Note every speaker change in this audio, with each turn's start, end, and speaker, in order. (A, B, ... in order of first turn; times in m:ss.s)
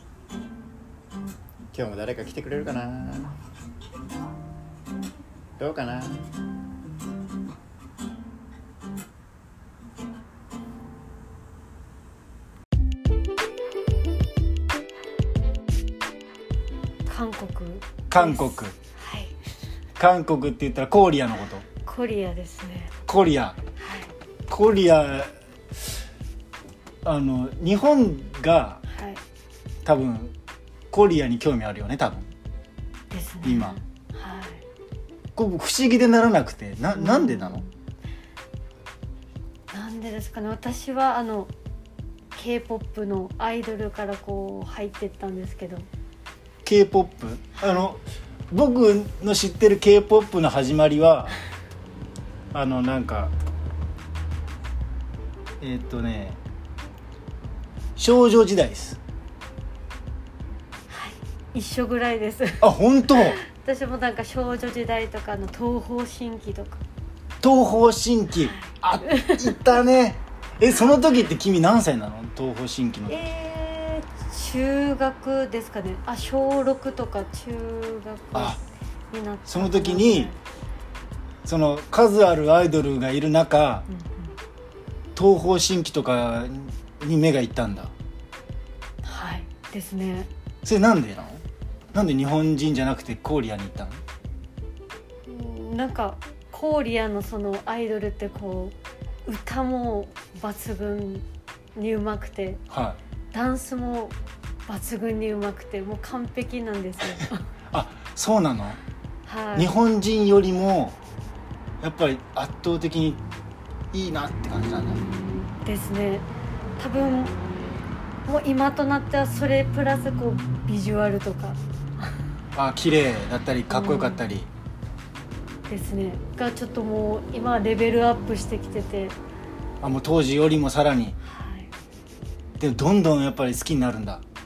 0:01.7-0:03.3 A
0:05.6-0:06.2 A
0:17.0-0:19.3 B
0:18.1-0:18.7 C
0:20.0-0:21.6 C
0:21.8-0:22.9 B
0:23.0-0:23.6 C
0:23.8-0:24.1 B
0:24.5-0:25.3 C
0:27.0-0:28.8 C
0:28.9-0:29.2 B
0:29.8-0:30.3 C
0:30.9-0:32.3 C
0:33.1-0:34.6 B
0:33.4-0:33.8 C
0:35.4-0:37.6 C
0:36.9-0:37.7 B
0:39.7-0:41.5 B
0:42.3-0:45.9 B
0:46.6-0:51.4 C
0:47.6-0:47.8 B
0:52.5-0:53.3 C
0:55.6-0:56.4 C
0:58.0-0:59.0 C
1:00.9-1:06.8 B
1:02.6-1:03.4 C
1:07.4-1:13.2 C
1:08.4-1:09.6 B
1:13.1-1:20.4 B
1:18.3-1:18.6 C
1:19.4-1:20.3 C
1:21.4-1:23.9 C
1:23.9-1:24.3 B
1:25.2-1:27.9 C
1:29.0-1:30.3 B
1:30.6-1:31.4 C
1:31.9-1:34.0 C
1:35.2-1:38.7 B
1:39.2-1:42.6 B
1:42.7-1:43.0 C
1:43.3-1:44.1 B
1:44.7-1:47.5 B
1:47.2-1:48.8 C
1:49.2-1:49.7 B
1:49.5-1:51.0 C
1:51.8-1:53.2 C
1:53.9-1:55.0 C
1:55.5-1:56.3 B
1:56.8-1:57.4 B
1:58.2-2:02.2 B
2:02.5-2:04.5 C
2:03.7-2:04.2 B
2:05.7-2:09.2 B
2:09.8-2:11.2 C
2:11.3-2:11.7 B
2:12.6-2:14.2 C